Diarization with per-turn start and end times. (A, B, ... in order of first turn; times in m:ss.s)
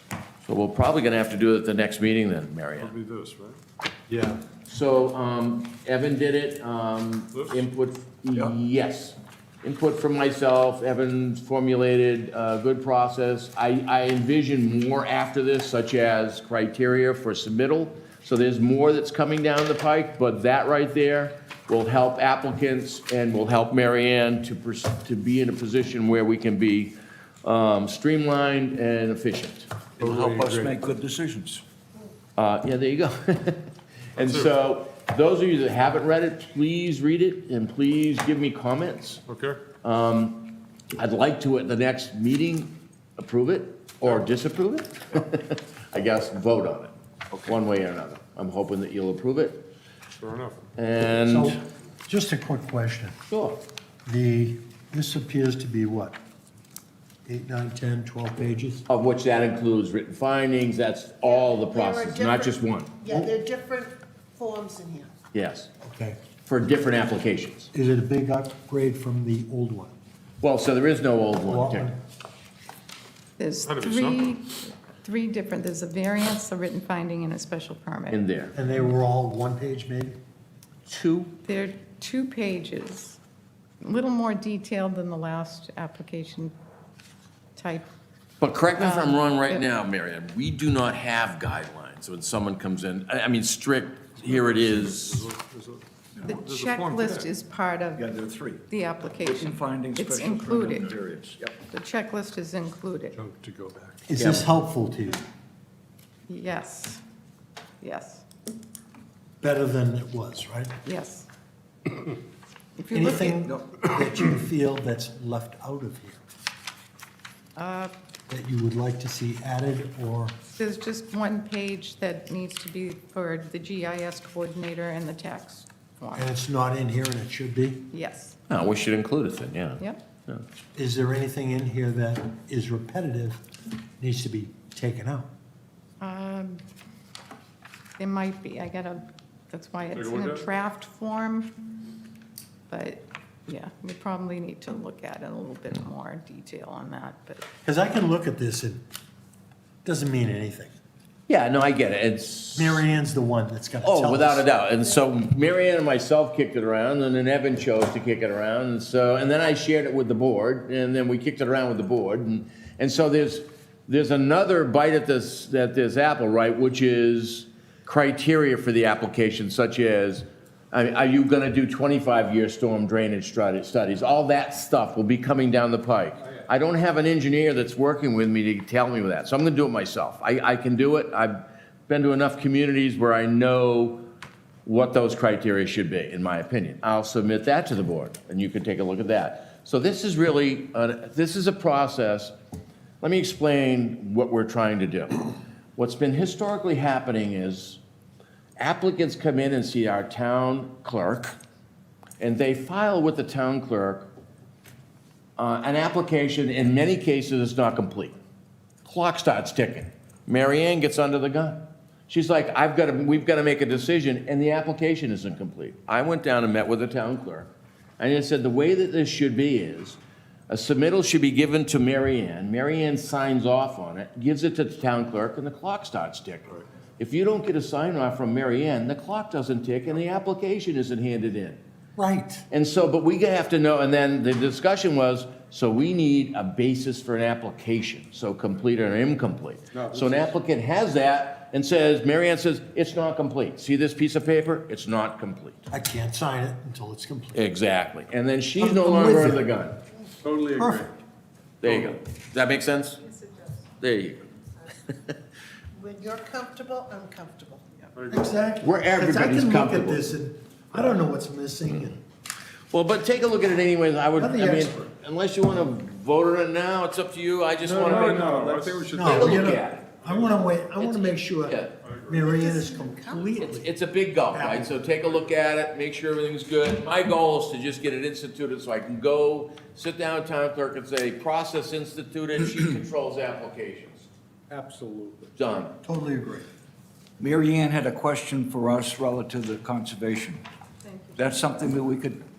0:00.4-0:02.9 A
0:02.8-0:03.6 B
0:04.6-0:29.7 A
0:07.3-0:07.6 B
0:30.0-0:31.6 C
0:30.0-0:30.7 B
0:32.4-0:39.2 A
0:34.2-0:34.5 B
0:39.3-0:39.6 B
0:39.8-0:49.6 A
0:50.2-0:50.7 B
0:50.8-0:51.6 A
0:51.2-0:53.2 D
0:53.3-0:53.6 A
0:54.0-0:56.2 D
0:57.2-0:58.8 D
0:58.9-1:03.1 A
1:01.2-1:05.1 E
1:05.3-1:05.7 A
1:05.8-1:06.2 D
1:06.4-1:07.7 A
1:07.7-1:09.9 D
1:10.4-1:11.9 A
1:11.4-1:12.0 D
1:13.4-1:18.2 F
1:13.6-1:14.3 B
1:18.1-1:18.5 A
1:18.5-1:20.2 D
1:20.9-1:21.3 A
1:21.4-1:23.2 F
1:23.8-1:26.5 F
1:27.6-1:27.9 F
1:28.4-1:35.2 A
1:28.7-1:29.6 F
1:34.2-1:37.3 B
1:36.2-1:38.0 F
1:37.9-1:41.6 C
1:38.7-1:40.9 F
1:41.7-1:43.2 F
1:43.1-1:44.0 B
1:44.1-1:45.2 D
1:44.2-1:44.5 A
1:46.3-1:47.0 F
1:47.8-1:48.2 F
1:49.4-1:50.7 D
1:50.8-1:51.3 F
1:52.8-1:53.5 F
1:52.9-1:56.2 D
1:57.6-1:57.9 F
1:58.3-2:00.3 D
2:00.6-2:06.3 F
2:06.1-2:07.8 D
2:07.9-2:08.4 F
2:08.5-2:10.4 A
2:10.8-2:13.4 D
2:14.0-2:15.3 D
2:16.0-2:16.6 F
2:18.0-2:21.6 F
2:19.9-2:20.4 B
2:22.7-2:27.4 F
2:27.6-2:28.8 D
2:29.8-2:30.7 D
2:31.3-2:32.8 A
2:32.6-2:34.4 D
2:33.8-3:04.0 A
3:04.6-3:12.3 A
3:13.0-3:15.2 A
3:15.8-3:17.8 A
3:18.6-3:21.4 A
3:22.2-3:24.1 A
3:25.4-3:28.2 A
3:28.8-3:51.6 A
3:52.0-3:52.4 D
3:52.5-4:05.7 A
3:59.7-4:00.3 B
4:05.7-4:07.4 D
4:07.3-4:09.8 A
4:08.6-4:09.4 D
4:10.2-4:10.9 B
4:10.6-4:10.9 D
4:11.6-4:13.0 A
4:11.6-4:11.9 B
4:13.8-4:14.3 A
4:15.7-4:17.6 E
4:18.0-4:18.3 B
4:18.1-4:22.0 D
4:18.6-4:20.0 A
4:22.7-4:29.9 A
4:24.2-4:24.8 D
4:27.6-4:30.4 B
4:28.9-4:33.7 D
4:30.8-4:31.7 A
4:31.8-4:32.3 B
4:32.2-4:33.4 E
4:33.4-4:44.1 A
4:34.3-4:34.8 D
4:34.9-4:35.3 B
4:44.5-4:45.3 B
4:45.4-4:45.7 A
4:45.8-4:46.4 D
4:47.2-4:50.4 C
4:50.8-4:51.4 F
4:51.2-4:52.2 C